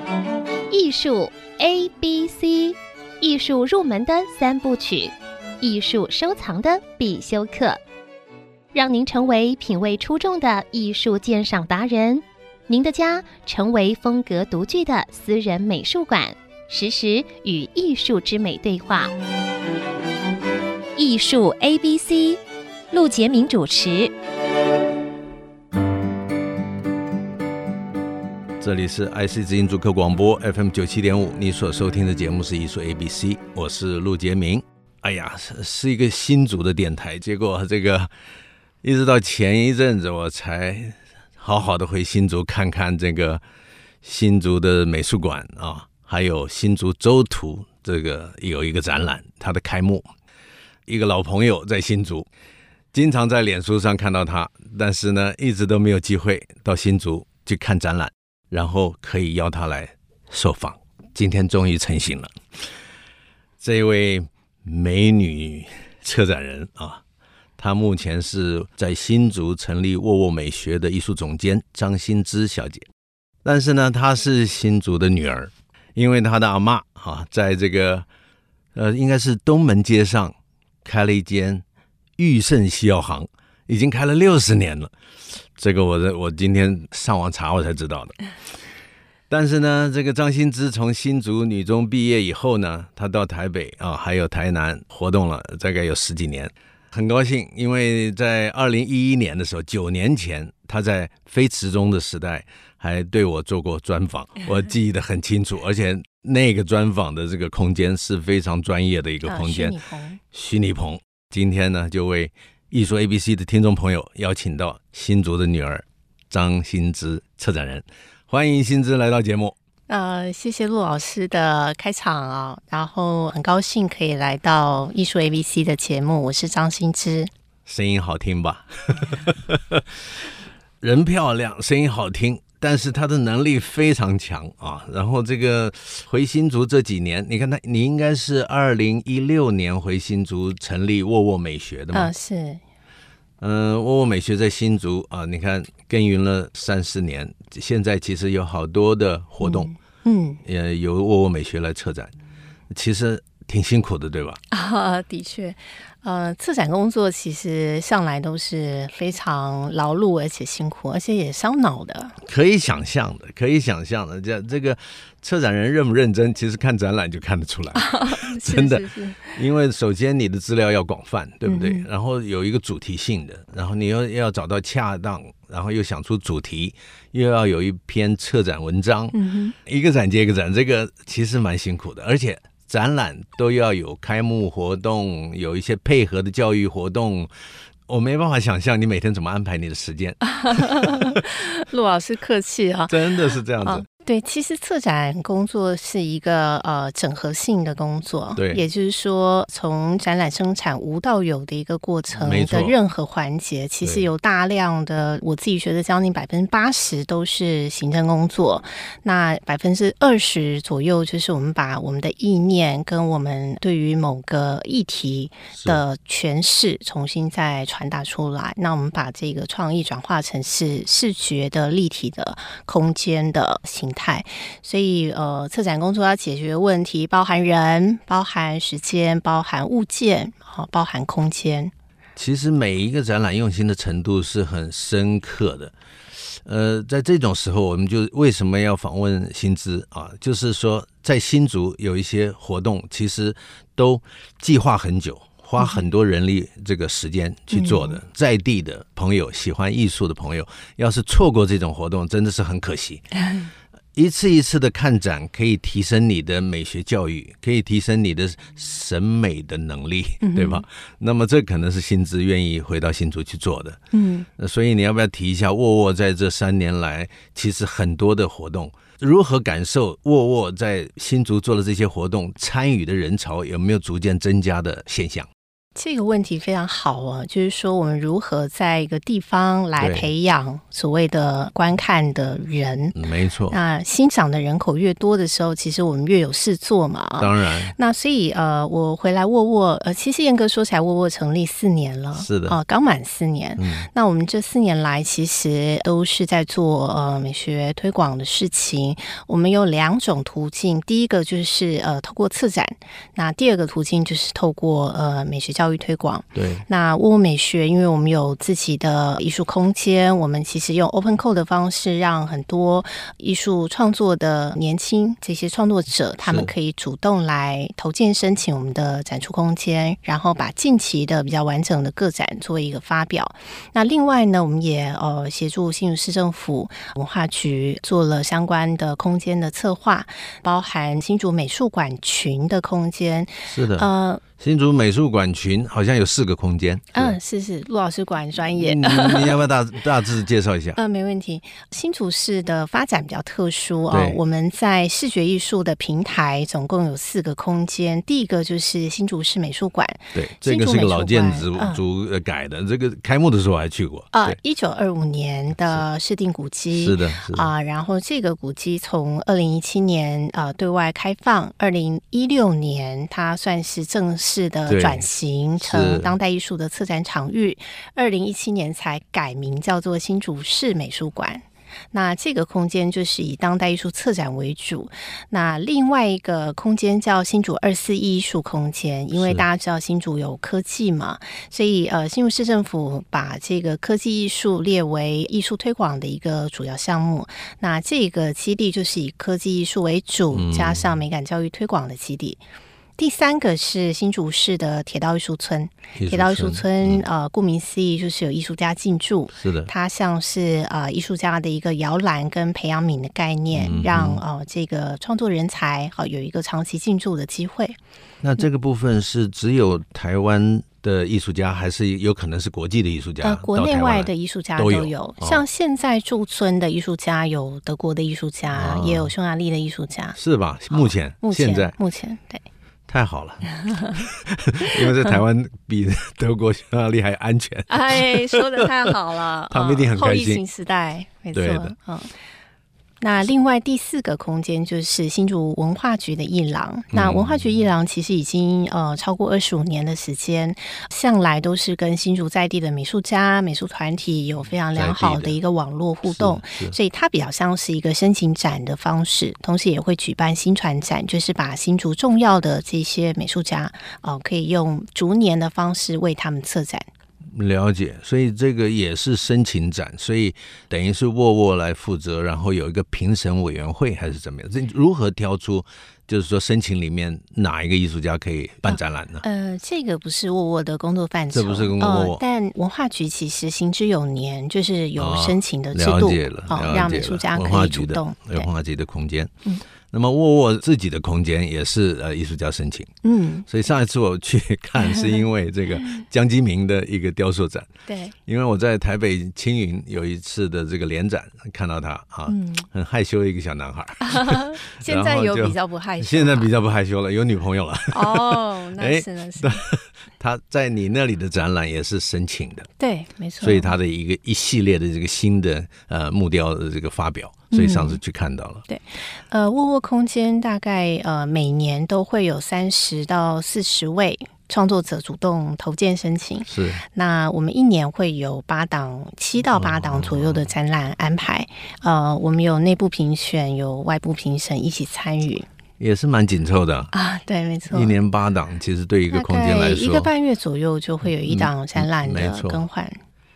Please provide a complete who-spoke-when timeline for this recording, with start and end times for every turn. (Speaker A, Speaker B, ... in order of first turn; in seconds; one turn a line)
Speaker A: 0.7-7.8
Speaker A: 8.7-19.1
Speaker A: 20.9-22.4
Speaker A: 22.9-24.1
Speaker B: 28.6-38.1
Speaker B: 38.8-43.4
Speaker B: 44.0-50.1
Speaker B: 50.9-52.3
Speaker B: 52.9-62.4
Speaker B: 63.6-67.0
Speaker B: 67.6-72.9
Speaker B: 73.4-78.0
Speaker B: 78.7-81.6
Speaker B: 82.2-84.9
Speaker B: 85.6-88.2
Speaker B: 89.3-109.8
Speaker C: 109.2-110.2
Speaker B: 110.3-119.5
Speaker C: 119.9-127.3
Speaker B: 127.7-130.0
Speaker B: 130.8-142.1
Speaker C: 141.9-142.6
Speaker B: 143.4-149.7
Speaker C: 149.4-150.4
Speaker B: 150.4-152.1
Speaker B: 152.7-154.4
Speaker C: 154.5-162.2
Speaker B: 162.2-187.3
Speaker C: 167.7-169.4
Speaker C: 171.4-171.9
Speaker C: 179.1-179.5
Speaker B: 187.9-191.2
Speaker C: 190.2-231.7
Speaker B: 192.9-193.8
Speaker B: 198.3-198.6
Speaker B: 202.1-202.7
Speaker B: 203.8-204.1
Speaker B: 215.5-215.8
Speaker B: 232.2-235.7
Speaker B: 236.3-253.1
Speaker C: 247.5-248.0
Speaker B: 253.9-263.8
Speaker C: 260.2-260.6
Speaker C: 263.9-264.3
Speaker B: 264.4-275.3
Speaker C: 275.7-282.9
Speaker B: 279.8-280.1
Speaker B: 282.9-283.6
Speaker C: 283.5-334.2
Speaker B: 287.2-287.7
Speaker B: 292.1-292.6
Speaker B: 293.6-293.9
Speaker B: 306.3-306.6
Speaker B: 316.2-316.5
Speaker B: 333.5-337.2
Speaker C: 336.9-339.4
Speaker B: 338.6-340.8
Speaker C: 340.8-351.8
Speaker B: 343.9-344.2
Speaker B: 350.1-354.4
Speaker C: 354.1-392.4
Speaker B: 356.7-357.5
Speaker B: 364.7-365.0
Speaker B: 365.6-366.1
Speaker B: 379.1-379.4
Speaker B: 390.3-390.9
Speaker C: 393.0-407.8
Speaker B: 396.0-397.0
Speaker B: 399.4-399.7
Speaker B: 403.5-404.2
Speaker B: 408.2-415.4
Speaker C: 413.2-420.2
Speaker B: 418.5-419.1
Speaker B: 420.1-421.7
Speaker C: 420.7-422.4
Speaker B: 422.9-428.9
Speaker C: 423.7-424.0
Speaker C: 427.7-432.1
Speaker B: 429.5-430.4
Speaker B: 431.3-431.7
Speaker C: 433.0-456.9
Speaker B: 436.9-437.4
Speaker B: 444.7-445.4
Speaker B: 446.1-446.8
Speaker B: 457.3-469.2
Speaker C: 468.6-478.5
Speaker B: 471.3-472.2
Speaker B: 475.0-479.3
Speaker B: 479.9-482.9
Speaker C: 483.0-483.5
Speaker B: 483.5-487.7
Speaker C: 484.8-485.2
Speaker C: 487.9-488.1
Speaker B: 488.2-502.7
Speaker C: 492.3-492.7
Speaker C: 494.0-496.5
Speaker C: 497.9-499.6
Speaker C: 502.8-503.7
Speaker B: 503.4-508.6
Speaker C: 507.5-508.0
Speaker C: 508.7-525.5
Speaker B: 516.5-516.8
Speaker B: 519.5-520.5
Speaker B: 525.8-526.9
Speaker C: 526.9-528.0
Speaker B: 527.7-530.1
Speaker C: 529.1-533.0
Speaker B: 531.2-532.6